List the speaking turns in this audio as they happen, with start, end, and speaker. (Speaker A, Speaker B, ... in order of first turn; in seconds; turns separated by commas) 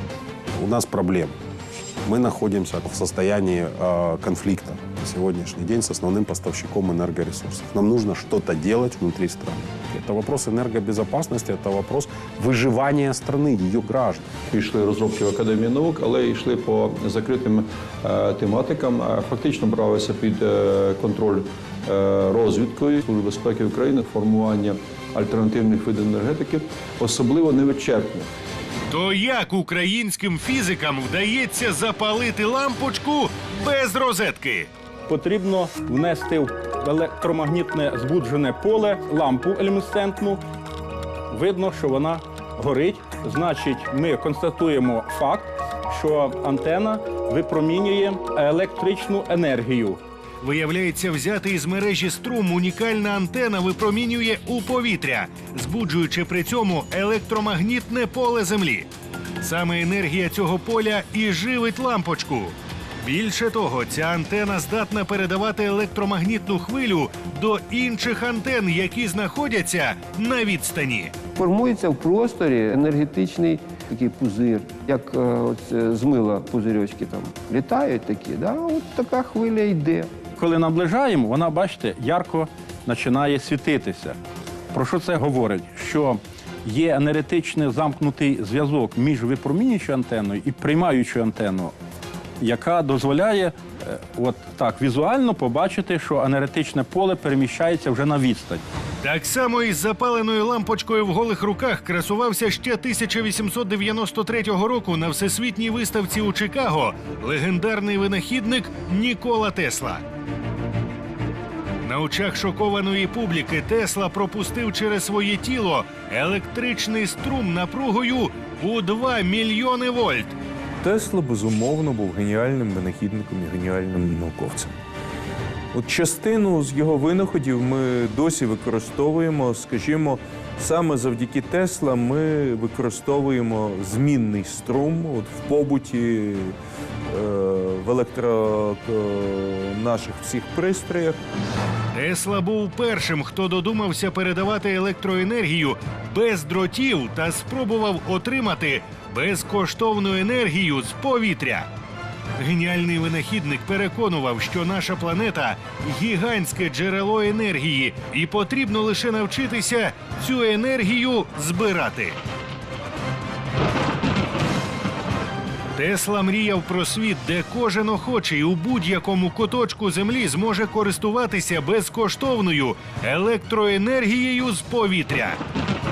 Speaker A: 0.6-1.3, Speaker A: 2.0-14.2, Speaker B: 14.5-28.3, Speaker C: 28.9-34.7, Speaker D: 35.1-40.4, Speaker D: 41.3-50.0, Speaker C: 50.4-58.9, Speaker C: 59.4-71.2, Speaker E: 71.4-80.1, Speaker D: 80.4-84.2, Speaker D: 84.7-91.7, Speaker D: 92.4-98.6, Speaker C: 99.0-110.0, Speaker C: 111.8-120.3, Speaker F: 120.8-124.8, Speaker F: 125.7-136.6, Speaker F: 137.1-141.2, Speaker C: 141.9-151.7, Speaker C: 152.4-162.2, Speaker C: 165.8-175.4